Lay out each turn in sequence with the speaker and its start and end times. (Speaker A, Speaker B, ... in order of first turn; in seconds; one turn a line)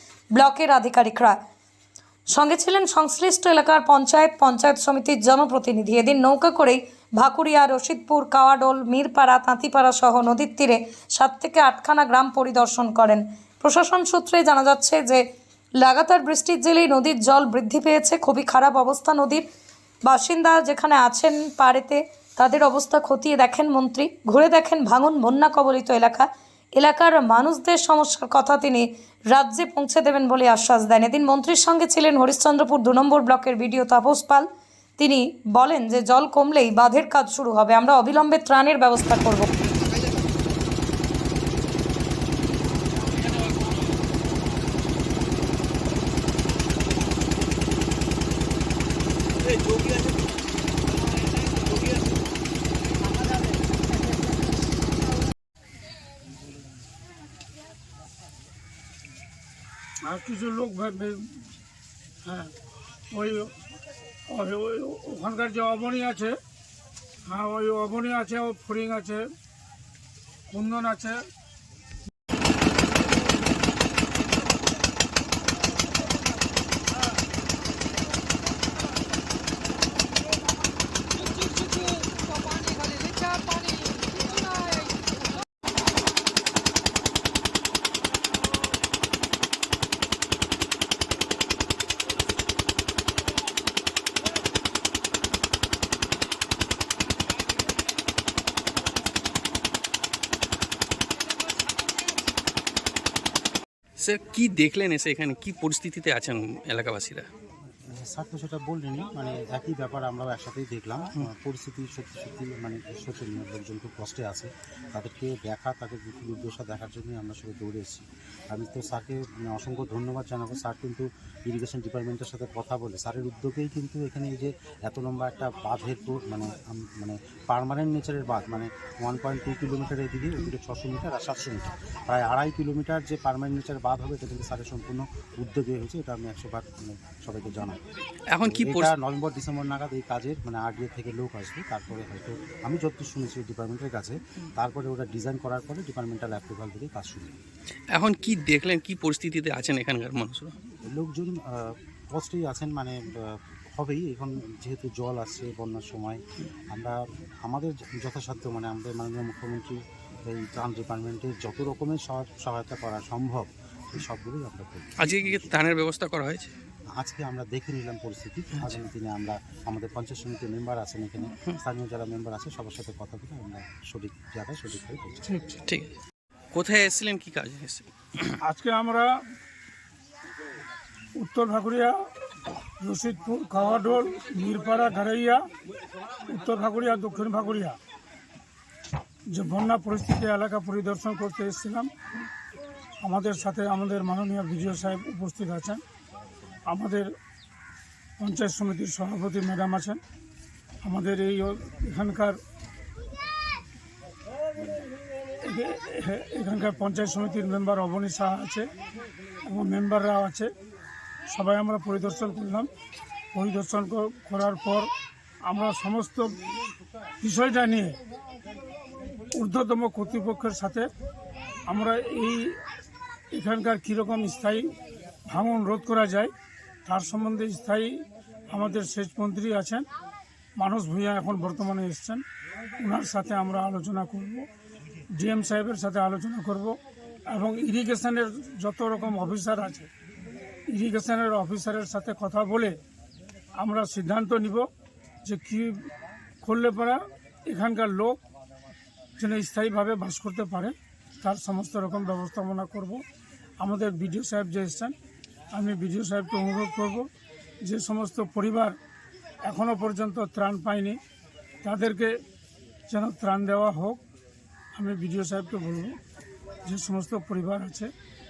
Speaker A: 0.3-1.4
Speaker A: 2.3-15.3
Speaker A: 15.8-19.5
Speaker A: 20.1-39.5
Speaker B: 60.0-61.5
Speaker B: 62.2-62.5
Speaker B: 63.1-63.5
Speaker B: 64.3-66.4
Speaker B: 67.2-69.3
Speaker B: 70.5-71.3
Speaker C: 104.0-107.3
Speaker D: 107.9-137.8
Speaker C: 138.3-138.9
Speaker D: 138.4-147.3
Speaker C: 147.9-150.6
Speaker D: 150.8-165.3
Speaker C: 165.0-166.5
Speaker D: 166.9-175.3
Speaker C: 175.7-175.9
Speaker C: 176.5-178.4
Speaker B: 178.4-179.2
Speaker B: 181.1-182.0
Speaker B: 182.8-185.5
Speaker B: 186.3-187.8
Speaker B: 189.3-191.9
Speaker B: 193.0-195.8
Speaker B: 196.7-197.1
Speaker B: 198.2-200.0
Speaker B: 200.8-202.4
Speaker B: 205.4-208.7
Speaker B: 209.5-210.5
Speaker B: 211.3-212.7
Speaker B: 213.3-214.9
Speaker B: 215.4-216.4
Speaker B: 217.2-218.0
Speaker B: 219.3-220.9
Speaker B: 221.7-222.6
Speaker B: 223.3-224.7
Speaker B: 225.3-226.3
Speaker B: 226.8-229.9
Speaker B: 230.6-232.2
Speaker B: 232.8-234.5
Speaker B: 235.1-239.9
Speaker B: 240.7-242.8
Speaker B: 243.6-244.7
Speaker B: 245.2-245.9
Speaker B: 246.4-248.2
Speaker B: 249.2-253.0
Speaker B: 253.6-254.9
Speaker B: 255.5-257.1
Speaker B: 257.6-258.8
Speaker B: 259.4-261.0
Speaker B: 261.6-262.2
Speaker B: 262.9-264.0
Speaker B: 264.7-266.0
Speaker B: 266.6-267.9